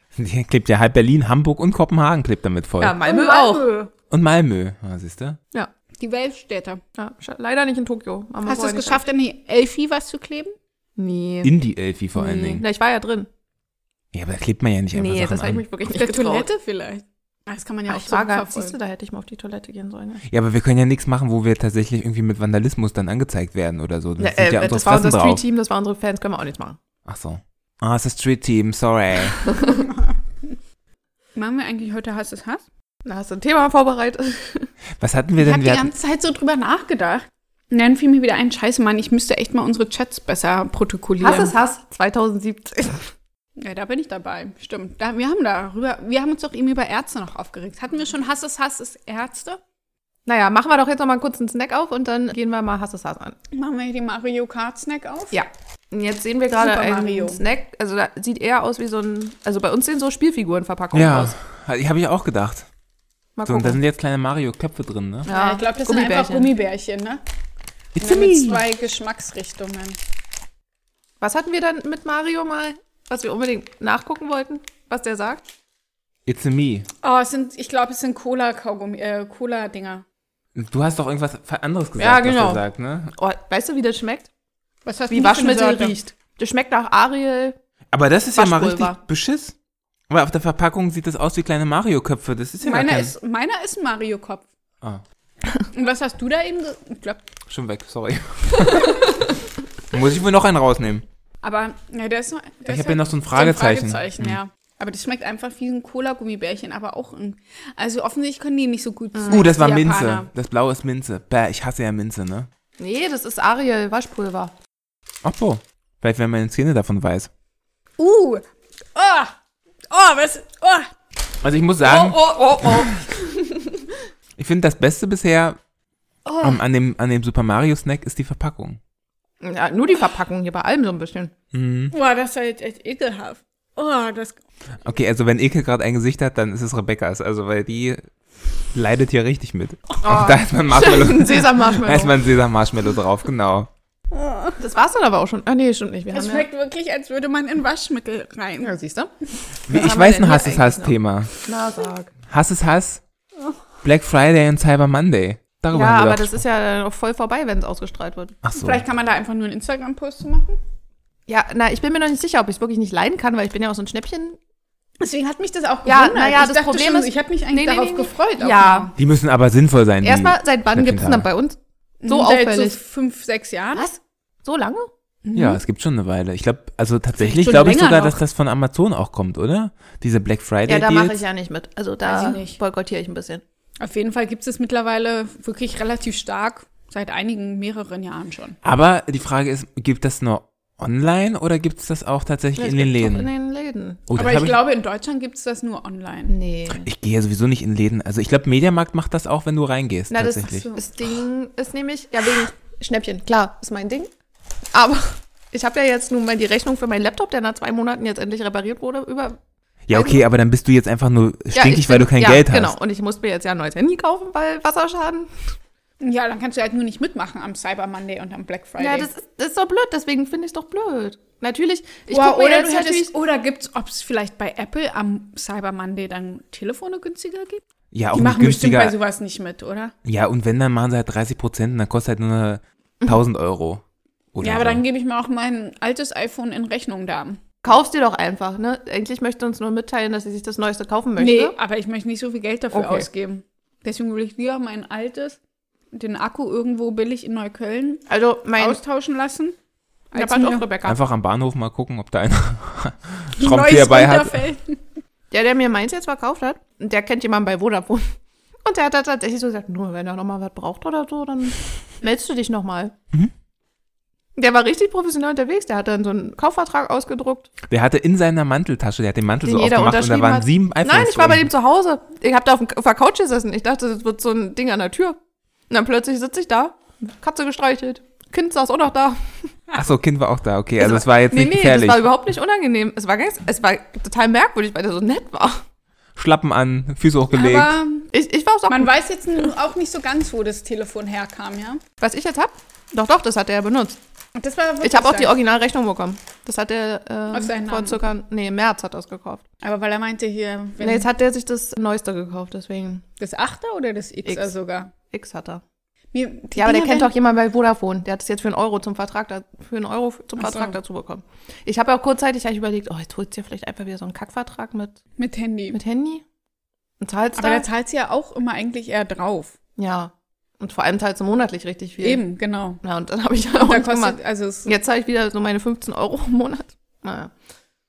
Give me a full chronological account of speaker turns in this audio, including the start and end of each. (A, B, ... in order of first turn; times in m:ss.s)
0:00.1-0:03.0 A
0:02.8-0:03.7 B
0:03.0-0:03.9 C
0:04.1-0:05.4 A
0:06.0-0:06.8 C
0:07.0-0:09.0 B
0:08.4-0:10.5 C
0:11.0-0:11.5 B
0:11.4-0:12.6 A
0:12.2-0:13.3 B
0:14.1-0:15.6 A
0:14.9-0:16.5 B
0:15.8-0:18.8 C
0:17.9-0:20.2 B
0:20.3-0:25.4 A
0:24.2-0:26.8 B
0:27.0-0:29.4 A
0:29.4-0:29.8 B
0:31.3-0:32.6 C
0:33.0-0:34.7 B
0:35.0-0:35.9 A
0:35.4-0:41.5 C
0:41.2-0:43.1 B
0:43.6-0:49.6 C
0:50.2-0:53.4 B
0:53.5-0:55.4 C
0:55.3-1:01.3 B
0:56.5-0:57.4 C
1:00.9-1:02.7 A
1:03.4-1:03.8 B
1:03.4-1:05.3 A
1:05.2-1:06.5 B
1:05.3-1:07.2 C
1:08.0-1:08.6 A
1:08.0-1:10.0 C
1:11.2-1:15.4 B
1:16.2-1:16.9 A
1:17.0-1:20.0 C
1:20.5-1:23.1 A
1:22.0-1:22.6 B
1:23.2-1:24.3 B
1:24.8-1:25.9 C
1:25.1-1:27.6 B
1:27.9-1:29.5 A
1:28.3-1:29.0 B
1:30.1-1:33.1 A
1:32.6-1:34.4 C
1:35.7-1:37.2 C
1:37.5-1:39.2 A
1:39.9-1:41.0 A
1:41.4-1:50.3 C
1:42.6-1:44.4 A
1:49.1-1:49.5 B
1:49.3-1:52.5 A
1:52.8-1:54.5 B
1:55.2-1:57.3 A
1:58.0-1:58.4 C
1:58.9-1:59.3 C
1:59.9-2:00.9 C
2:01.4-2:03.0 A
2:01.8-2:03.8 B
2:04.4-2:05.6 A
2:06.2-2:06.6 C
2:06.4-2:08.8 A
2:09.4-2:11.3 B
2:11.5-2:11.9 A
2:11.9-2:14.4 C
2:14.8-2:18.1 A
2:18.7-2:23.7 A
2:20.0-2:22.2 B
2:24.1-2:24.6 C
2:24.6-2:26.4 B
2:26.1-2:28.7 C
2:28.6-2:29.1 B
2:29.7-2:31.3 A
2:29.7-2:32.1 B
2:32.3-2:33.0 A
2:33.8-2:36.4 A
2:35.7-2:38.4 B
2:38.4-2:38.8 A
2:38.5-2:40.6 C
2:41.3-2:44.4 B
2:45.0-2:48.9 C
2:45.8-2:48.9 B
2:49.0-2:51.3 A
2:50.0-2:52.8 B
2:52.0-2:53.9 C
2:53.7-2:54.9 B
2:55.2-2:55.6 C
2:55.3-3:01.2 A
2:57.2-2:58.2 C
3:00.7-3:03.4 B
3:02.0-3:02.6 C
3:03.8-3:08.6 C
3:08.6-3:13.3 A
3:12.6-3:14.1 B
3:14.1-3:14.6 A
3:14.1-3:16.3 C
3:16.3-3:16.9 B
3:16.7-3:20.7 A
3:20.1-3:24.1 B
3:20.5-3:20.8 C
3:24.7-3:29.4 B
3:29.9-3:32.7 A
3:29.9-3:30.2 B
3:31.5-3:35.3 B
3:36.0-3:39.1 C
3:38.8-3:43.1 B
3:42.1-3:49.9 C
3:47.9-3:49.0 A
3:50.0-3:53.8 A
3:54.3-3:54.8 A
3:54.4-3:57.4 C
3:57.6-4:01.5 B
4:01.2-4:05.4 C
4:02.7-4:03.1 B
4:05.9-4:08.0 C
4:08.1-4:08.8 B
4:08.6-4:09.5 C
4:10.1-4:10.7 C
4:10.1-4:11.0 B
4:10.8-4:14.4 A
4:13.4-4:14.8 C
4:15.3-4:18.1 B
4:18.6-4:22.9 B
4:24.4-4:27.5 B
4:27.7-4:31.5 A
4:29.4-4:35.2 B
4:35.7-4:39.5 B
4:39.7-4:42.1 A
4:40.8-4:45.6 B
4:46.2-4:47.7 A
4:47.3-4:48.1 C
4:48.1-4:48.9 B
4:48.7-4:51.8 C
4:52.0-4:54.0 B
4:54.3-4:55.4 C
4:54.8-4:59.4 B
4:57.3-4:58.0 C
4:59.6-5:01.1 C
5:00.8-5:03.0 B
5:03.2-5:04.9 C
5:05.1-5:05.6 B
5:06.1-5:07.1 C
5:06.6-5:15.0 B
5:10.4-5:10.7 C
5:15.2-5:15.8 C
5:15.7-5:16.2 B
5:17.0-5:17.6 B
5:17.4-5:19.6 C
5:19.8-5:22.2 B
5:22.0-5:22.8 C
5:22.8-5:27.3 B
5:23.5-5:24.7 C